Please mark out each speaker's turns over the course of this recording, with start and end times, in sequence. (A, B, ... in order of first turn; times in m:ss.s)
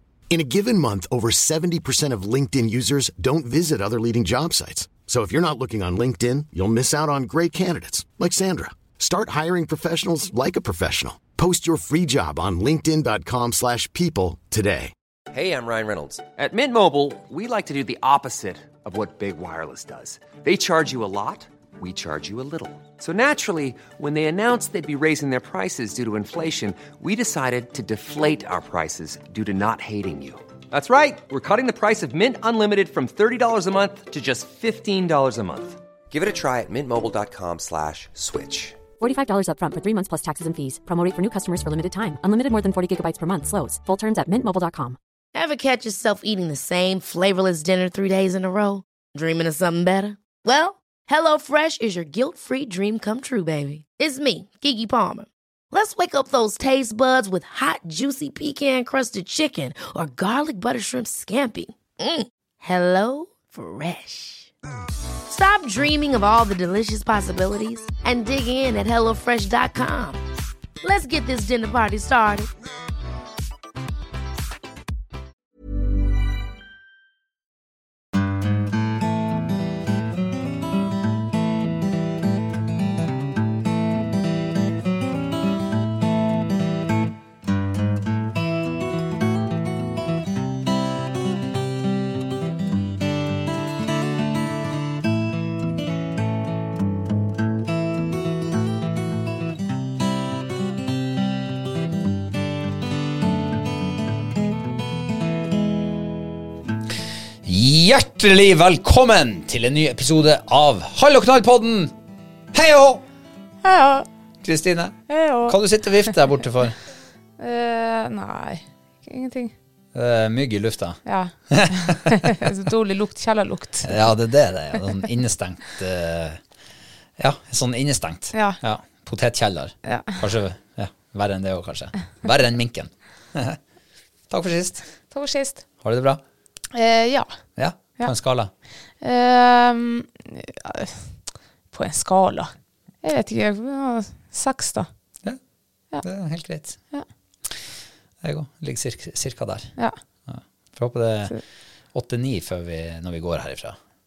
0:00.3-0:14.9 A
0:15.3-0:38.8 B
0:39.0-0:45.0 C
0:45.3-1:04.5 D
1:05.3-1:10.2 D
1:10.8-1:12.5 D
1:47.4-1:51.9 E
1:52.5-1:53.0 E
1:53.6-1:54.1 F
1:54.4-1:56.8 E
1:55.1-1:55.6 F
1:57.4-1:59.5 F
1:59.9-2:02.5 E
2:01.0-2:04.1 F
2:03.8-2:06.4 E
2:07.2-2:13.6 E
2:08.3-2:08.6 F
2:09.8-2:10.2 F
2:14.3-2:14.9 E
2:15.1-2:15.6 F
2:15.8-2:16.2 E
2:16.7-2:17.3 F
2:17.6-2:18.5 E
2:19.0-2:21.1 F
2:21.7-2:22.5 F
2:23.0-2:24.9 F
2:26.0-2:26.8 E
2:28.2-2:29.7 E
2:30.3-2:31.4 E
2:31.9-2:33.8 E